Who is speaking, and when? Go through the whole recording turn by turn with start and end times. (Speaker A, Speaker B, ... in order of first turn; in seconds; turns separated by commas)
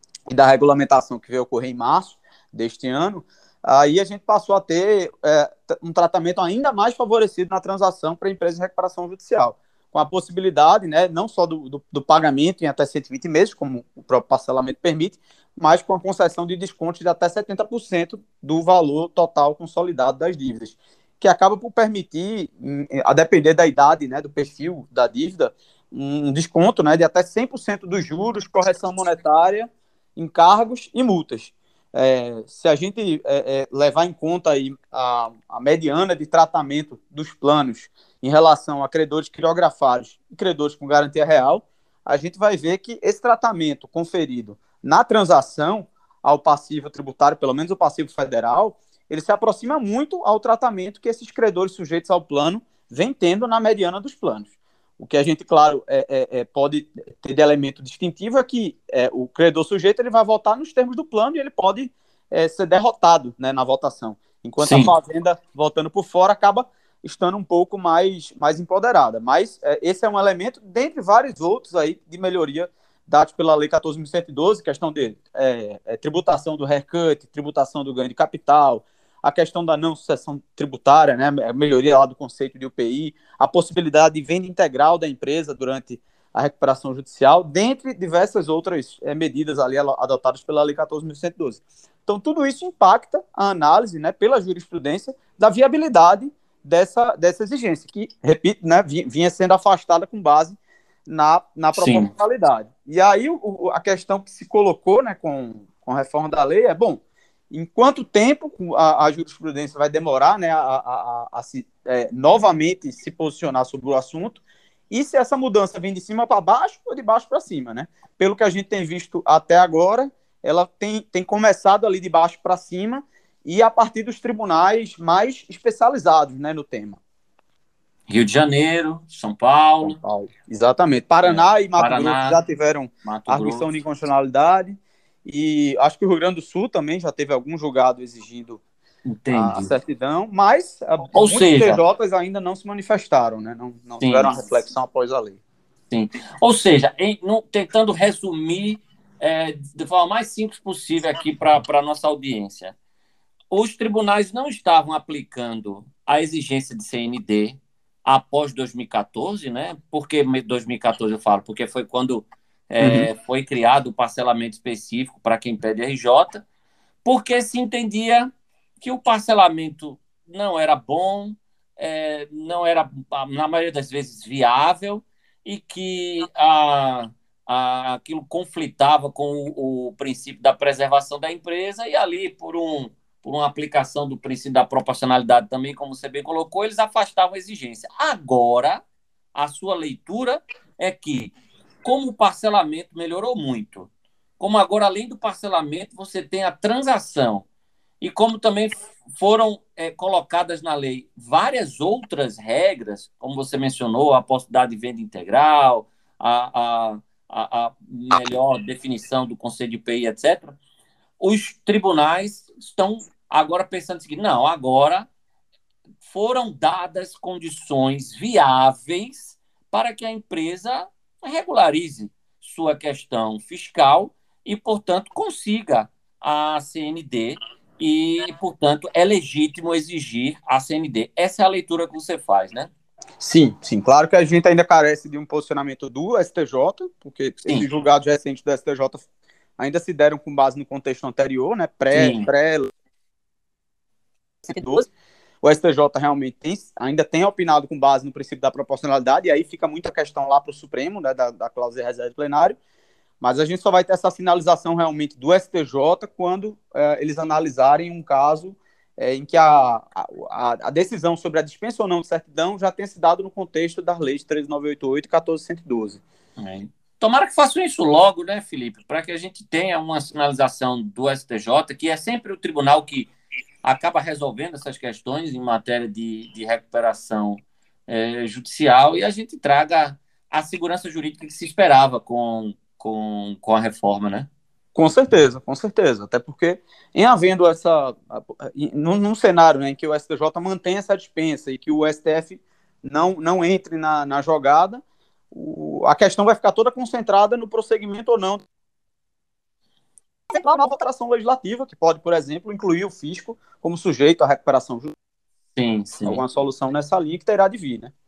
Speaker A: 0.3-127.0, Speaker B: 64.6-64.9, Speaker B: 101.8-102.1, Speaker B: 128.1-130.0, Speaker A: 129.8-138.6, Speaker B: 131.2-132.4, Speaker B: 133.1-133.7, Speaker B: 139.1-139.8, Speaker A: 139.3-145.4, Speaker B: 141.1-141.8, Speaker B: 144.0-144.3, Speaker B: 145.9-152.7, Speaker B: 153.5-166.4, Speaker A: 162.8-163.1, Speaker B: 167.1-168.3, Speaker B: 168.8-188.8, Speaker B: 189.4-197.5, Speaker B: 198.0-210.6, Speaker B: 211.2-215.1, Speaker B: 216.0-232.7, Speaker A: 233.2-239.1, Speaker A: 239.6-242.7, Speaker B: 241.9-242.3, Speaker A: 244.5-244.9, Speaker A: 245.4-252.6, Speaker A: 253.2-266.0, Speaker B: 266.4-273.1, Speaker B: 273.6-284.3, Speaker A: 284.8-298.4, Speaker A: 300.3-304.9, Speaker B: 305.6-306.2, Speaker A: 306.0-307.9